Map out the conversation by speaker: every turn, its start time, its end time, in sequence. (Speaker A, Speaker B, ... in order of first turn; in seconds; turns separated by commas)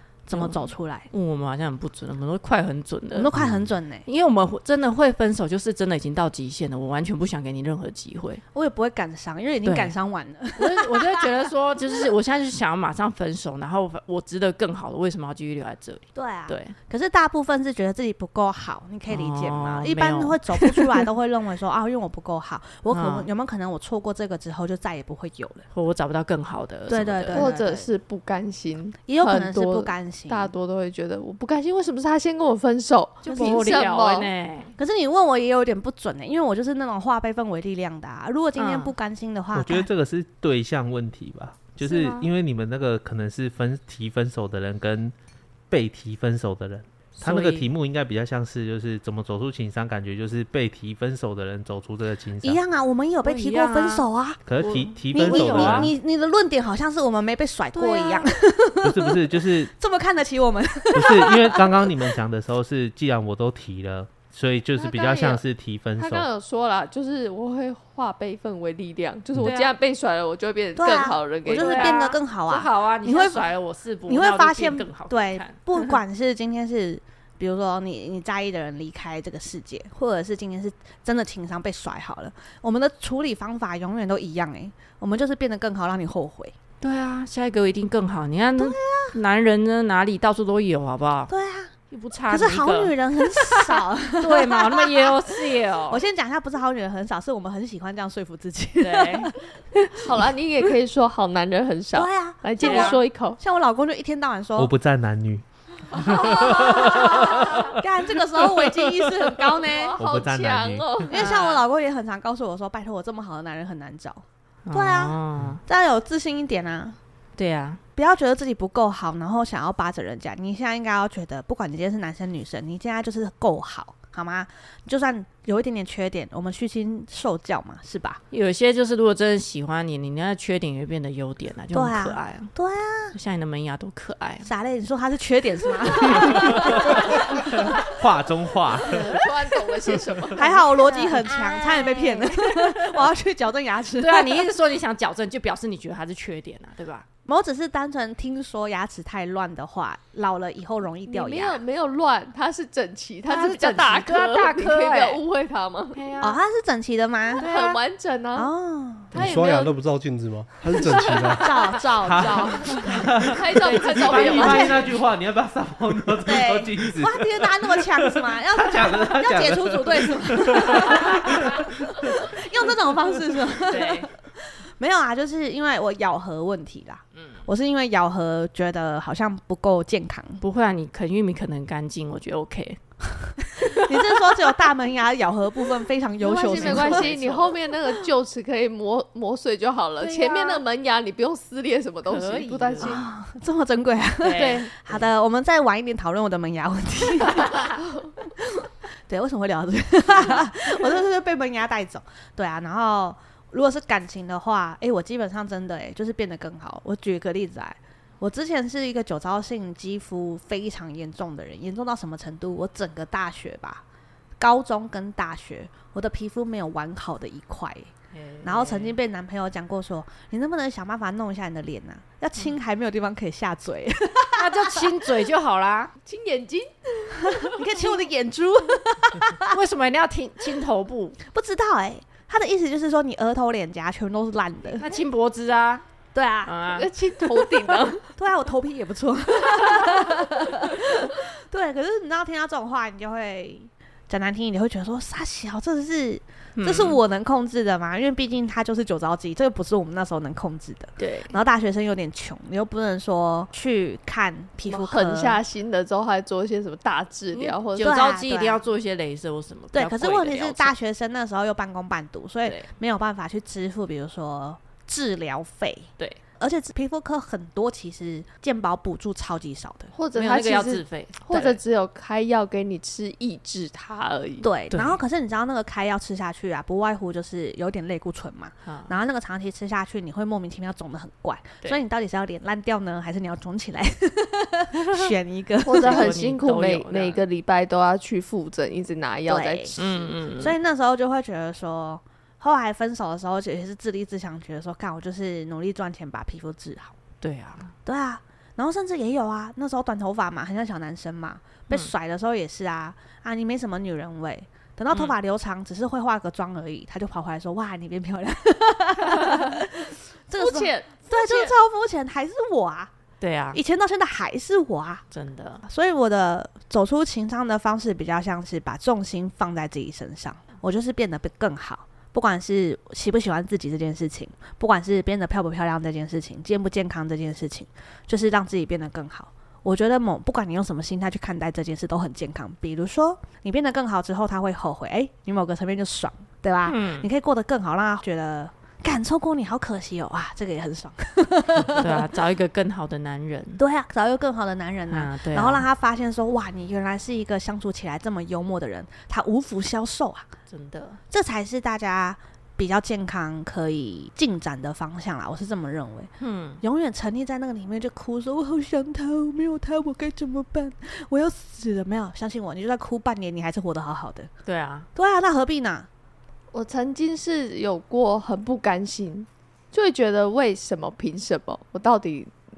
Speaker A: 0.2-1.1, Speaker B: 0.3-3.3, Speaker A: 3.1-4.0, Speaker B: 4.0-8.4, Speaker A: 8.5-11.3, Speaker B: 9.6-9.9, Speaker B: 10.6-16.8, Speaker A: 16.1-25.6, Speaker B: 19.1-21.1, Speaker B: 22.9-23.3, Speaker B: 25.7-27.5, Speaker A: 26.9-27.9, Speaker C: 27.3-34.3, Speaker A: 29.1-30.5, Speaker B: 33.2-34.7, Speaker A: 33.2-33.8, Speaker A: 34.8-39.9, Speaker B: 38.5-38.9, Speaker D: 39.5-45.1, Speaker B: 41.8-42.3, Speaker D: 45.7-52.6, Speaker B: 47.2-47.7, Speaker A: 52.4-54.4, Speaker B: 53.2-54.0, Speaker D: 54.5-55.9, Speaker B: 54.6-55.9, Speaker A: 55.1-62.2, Speaker C: 57.8-58.3, Speaker D: 58.8-59.7, Speaker D: 60.9-66.3, Speaker C: 64.7-65.4, Speaker C: 66.0-72.0, Speaker B: 69.4-69.7, Speaker A: 70.8-73.5, Speaker B: 71.5-75.6, Speaker A: 74.1-86.5, Speaker B: 86.8-91.3, Speaker A: 88.6-89.1, Speaker A: 91.3-91.7, Speaker B: 91.9-96.0, Speaker A: 92.3-99.9, Speaker B: 98.8-99.3, Speaker C: 99.9-103.4, Speaker A: 101.9-104.7, Speaker B: 102.6-103.0, Speaker D: 104.6-107.8, Speaker A: 105.9-110.0, Speaker C: 109.6-111.2, Speaker D: 110.0-110.9, Speaker A: 111.0-117.0, Speaker B: 111.1-111.6, Speaker B: 114.7-115.6, Speaker B: 117.3-117.8, Speaker A: 118.0-128.2, Speaker B: 128.3-132.5, Speaker A: 131.7-133.1, Speaker B: 133.1-134.5, Speaker A: 134.4-137.8, Speaker D: 136.7-139.2, Speaker C: 138.9-140.6, Speaker A: 140.3-144.5, Speaker B: 140.4-143.0, Speaker B: 144.0-147.1, Speaker A: 147.2-151.6, Speaker C: 151.1-156.0, Speaker A: 153.3-154.1, Speaker B: 154.0-155.2, Speaker B: 155.9-156.4, Speaker A: 156.2-157.8, Speaker C: 157.4-158.5, Speaker B: 157.4-157.7, Speaker A: 158.3-159.1, Speaker E: 159.1-161.6, Speaker C: 159.1-159.7, Speaker C: 160.9-161.3, Speaker A: 161.4-163.0, Speaker D: 162.0-163.4, Speaker C: 163.2-164.8, Speaker B: 163.5-164.9, Speaker D: 163.9-172.2, Speaker A: 164.4-164.8, Speaker A: 166.2-180.4, Speaker B: 173.6-174.1, Speaker B: 177.2-177.5, Speaker B: 180.4-182.8, Speaker A: 183.4-187.2, Speaker B: 183.6-183.9, Speaker C: 186.2-193.1, Speaker B: 186.3-187.5, Speaker B: 190.0-190.6, Speaker B: 192.0-193.0, Speaker A: 192.8-213.8, Speaker B: 194.2-195.0, Speaker C: 194.3-194.7, Speaker A: 214.4-217.9, Speaker B: 218.1-218.9, Speaker A: 218.4-224.9, Speaker B: 224.3-225.9, Speaker C: 226.0-227.6, Speaker A: 227.2-229.5, Speaker B: 229.5-231.2, Speaker A: 231.2-234.9, Speaker B: 234.8-235.8, Speaker A: 236.1-236.5, Speaker B: 236.4-236.9, Speaker C: 236.7-238.0, Speaker A: 237.2-255.4, Speaker B: 246.6-247.0, Speaker B: 251.0-251.4, Speaker C: 254.7-257.9, Speaker B: 257.3-260.7, Speaker A: 257.8-258.6, Speaker A: 259.7-269.9, Speaker C: 269.9-274.5, Speaker B: 270.1-271.6, Speaker A: 274.4-286.1, Speaker B: 274.7-275.0, Speaker B: 278.6-278.9, Speaker C: 285.6-290.1, Speaker B: 285.7-287.2, Speaker A: 289.3-289.7, Speaker B: 289.8-290.6, Speaker A: 290.4-296.9, Speaker B: 297.2-297.7, Speaker A: 297.8-312.9, Speaker B: 309.1-309.4, Speaker C: 310.4-311.5, Speaker B: 313.2-313.6, Speaker A: 313.5-315.0, Speaker B: 315.1-315.6, Speaker A: 315.6-342.0, Speaker B: 336.6-337.1, Speaker B: 341.7-343.6, Speaker A: 343.6-350.3, Speaker B: 344.9-345.6, Speaker B: 350.5-351.0, Speaker A: 351.1-364.3, Speaker B: 356.2-356.6, Speaker B: 364.4-364.9, Speaker A: 364.9-365.9, Speaker C: 366.5-372.3